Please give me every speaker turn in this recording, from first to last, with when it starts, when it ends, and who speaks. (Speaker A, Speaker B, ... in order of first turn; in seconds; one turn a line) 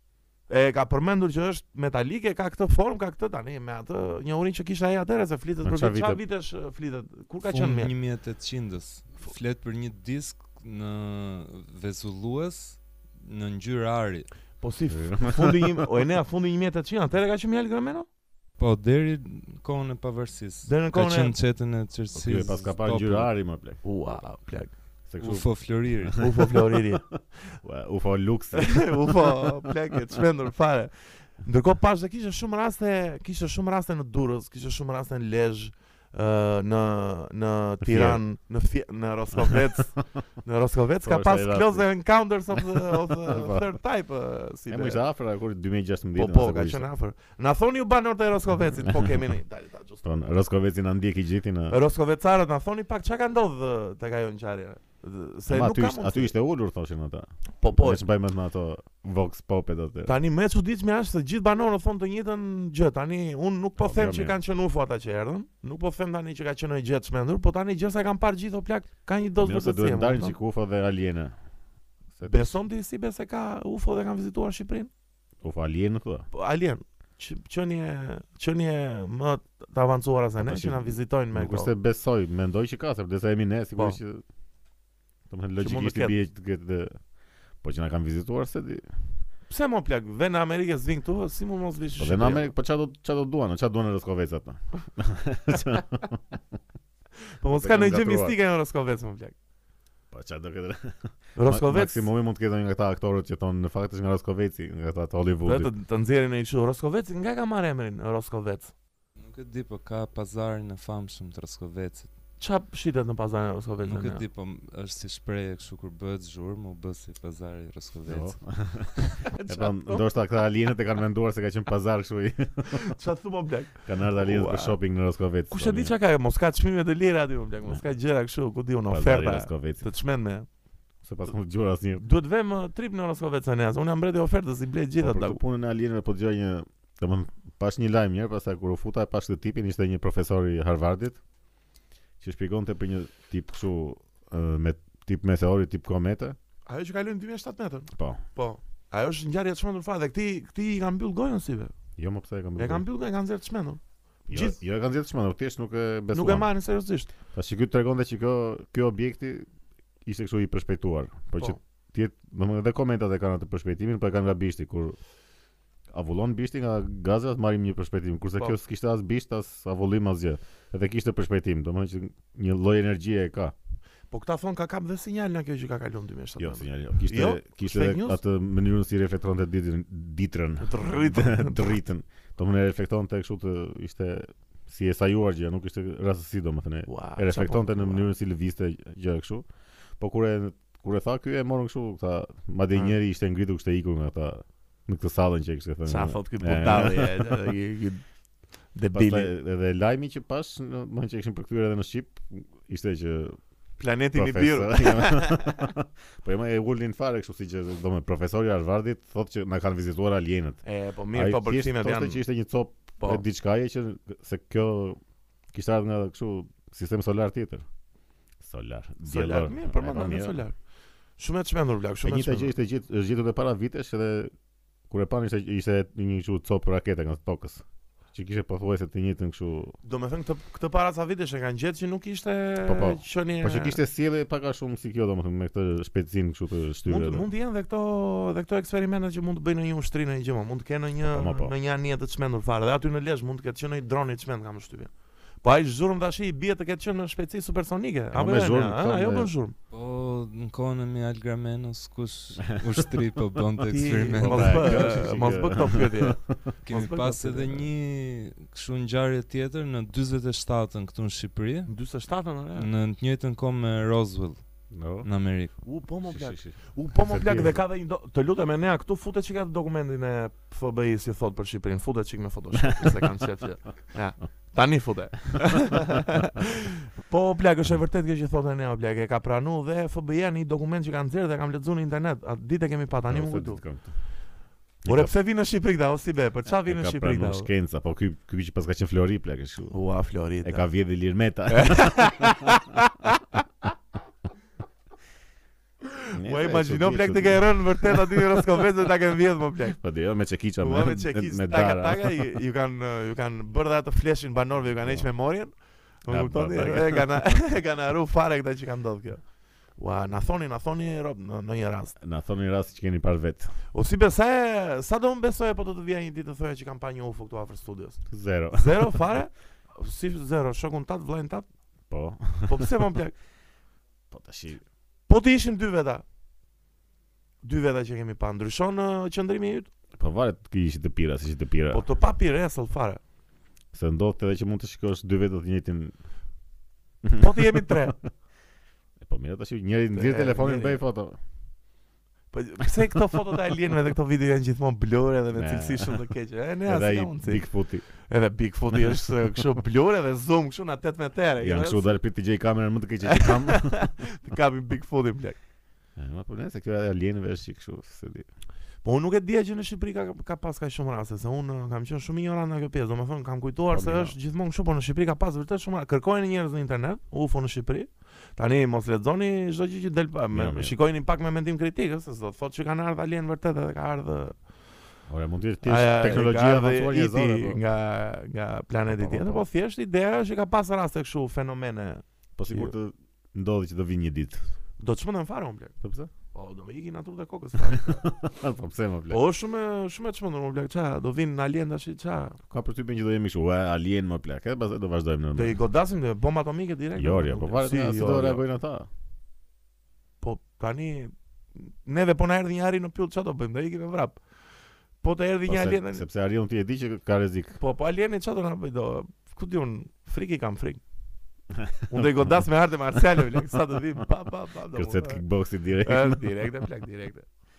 Speaker A: 0.5-7.9
Speaker B: 5.6-6.2
Speaker C: 7.4-14.3
Speaker A: 14.6-18.1
Speaker B: 14.9-15.6
Speaker C: 18.6-23.3
Speaker A: 20.6-21.4
Speaker B: 22.1-23.8
Speaker A: 23.8-24.7
Speaker B: 25.1-25.5
Speaker C: 25.2-26.3
Speaker B: 26.0-29.5
Speaker A: 26.2-27.1
Speaker A: 28.5-45.0
Speaker B: 37.8-38.2
Speaker B: 39.4-40.0
Speaker B: 41.0-41.9
Speaker B: 42.5-43.7
Speaker B: 44.7-46.9
Speaker A: 46.2-50.2
Speaker B: 48.8-49.3
Speaker B: 50.0-51.8
Speaker A: 51.7-56.3
Speaker B: 55.5-60.1
Speaker A: 57.6-58.0
Speaker A: 60.0-70.4
Speaker B: 63.8-64.4
Speaker B: 69.4-71.4
Speaker B: 72.2-72.6
Speaker A: 72.2-74.9
Speaker B: 75.4-76.3
Speaker A: 76.3-81.7
Speaker B: 80.4-84.2
Speaker B: 85.3-86.9
Speaker A: 85.6-86.2
Speaker B: 87.6-88.9
Speaker A: 89.5-92.5
Speaker B: 92.0-96.4
Speaker A: 97.4-99.3
Speaker B: 97.6-98.4
Speaker B: 100.1-105.7
Speaker A: 101.4-102.1
Speaker A: 105.5-108.7
Speaker C: 109.2-112.1
Speaker A: 112.4-114.2
Speaker C: 113.8-118.4
Speaker B: 118.1-122.9
Speaker A: 119.0-120.0
Speaker A: 122.7-124.8
Speaker B: 123.9-126.0
Speaker A: 125.5-130.5
Speaker B: 128.9-129.8
Speaker B: 131.0-132.0
Speaker A: 132.0-135.4
Speaker B: 135.0-141.2
Speaker B: 142.2-146.4
Speaker A: 146.7-151.7
Speaker B: 148.0-148.2
Speaker B: 152.0-152.8
Speaker A: 152.6-154.6
Speaker B: 154.3-156.5
Speaker A: 156.1-157.1
Speaker B: 157.3-159.5
Speaker B: 160.1-165.0
Speaker B: 165.9-173.5
Speaker A: 174.1-178.2
Speaker B: 176.4-189.5
Speaker A: 180.6-181.8
Speaker A: 186.9-188.1
Speaker B: 190.0-197.4
Speaker A: 195.9-198.0
Speaker A: 198.7-199.3
Speaker B: 198.9-203.4
Speaker A: 203.8-205.6
Speaker B: 204.1-210.6
Speaker A: 210.6-212.2
Speaker B: 211.1-215.0
Speaker B: 215.5-217.7
Speaker B: 218.4-220.4
Speaker A: 219.1-220.5
Speaker A: 221.2-222.5
Speaker B: 222.0-224.3
Speaker B: 224.9-227.6
Speaker B: 228.1-229.8
Speaker A: 229.8-233.8
Speaker B: 232.7-237.2
Speaker A: 236.9-244.9
Speaker B: 241.1-241.5
Speaker A: 245.4-249.6
Speaker B: 248.1-249.3
Speaker C: 249.7-255.0
Speaker A: 253.7-257.6
Speaker B: 254.2-256.5
Speaker C: 256.6-261.7
Speaker A: 261.7-262.7
Speaker C: 262.6-264.5
Speaker B: 264.7-265.1
Speaker C: 265.0-265.6
Speaker A: 265.6-283.6
Speaker B: 266.1-267.6
Speaker B: 272.7-273.0
Speaker B: 283.1-283.9
Speaker B: 284.8-285.1
Speaker A: 284.9-287.5
Speaker B: 286.7-289.8
Speaker A: 289.7-290.7
Speaker B: 290.4-292.5
Speaker A: 291.5-293.4
Speaker A: 295.9-299.8
Speaker B: 296.1-298.4
Speaker B: 299.8-302.3
Speaker A: 300.6-309.2
Speaker B: 306.1-307.1
Speaker A: 309.8-312.0
Speaker B: 312.0-313.5
Speaker A: 313.7-321.5
Speaker B: 318.1-319.0
Speaker B: 321.9-322.8
Speaker A: 322.5-323.1
Speaker B: 324.1-324.6
Speaker A: 325.1-326.0
Speaker A: 327.4-329.7
Speaker B: 330.0-331.8
Speaker A: 331.7-333.0
Speaker B: 333.7-335.9
Speaker B: 337.0-338.0
Speaker A: 337.2-338.0
Speaker B: 339.0-341.2
Speaker A: 339.9-340.8
Speaker A: 342.3-352.0
Speaker B: 345.3-346.1
Speaker B: 346.6-347.9
Speaker B: 351.4-353.9
Speaker A: 353.1-355.4
Speaker B: 356.0-358.3
Speaker A: 358.8-374.4
Speaker B: 363.7-364.1
Speaker B: 370.3-370.8
Speaker B: 375.1-377.6
Speaker A: 375.6-382.7
Speaker B: 378.9-379.5
Speaker B: 382.4-384.4
Speaker A: 384.8-385.8
Speaker B: 385.8-386.1
Speaker A: 386.3-388.0
Speaker B: 387.7-389.2
Speaker A: 389.1-392.4
Speaker B: 392.5-395.6
Speaker A: 395.4-398.4
Speaker B: 397.0-398.9
Speaker A: 400.2-404.2
Speaker A: 405.0-406.1
Speaker B: 405.5-407.6
Speaker A: 407.6-410.8
Speaker B: 411.5-412.4
Speaker A: 411.9-415.2
Speaker B: 414.7-416.4
Speaker A: 415.8-417.3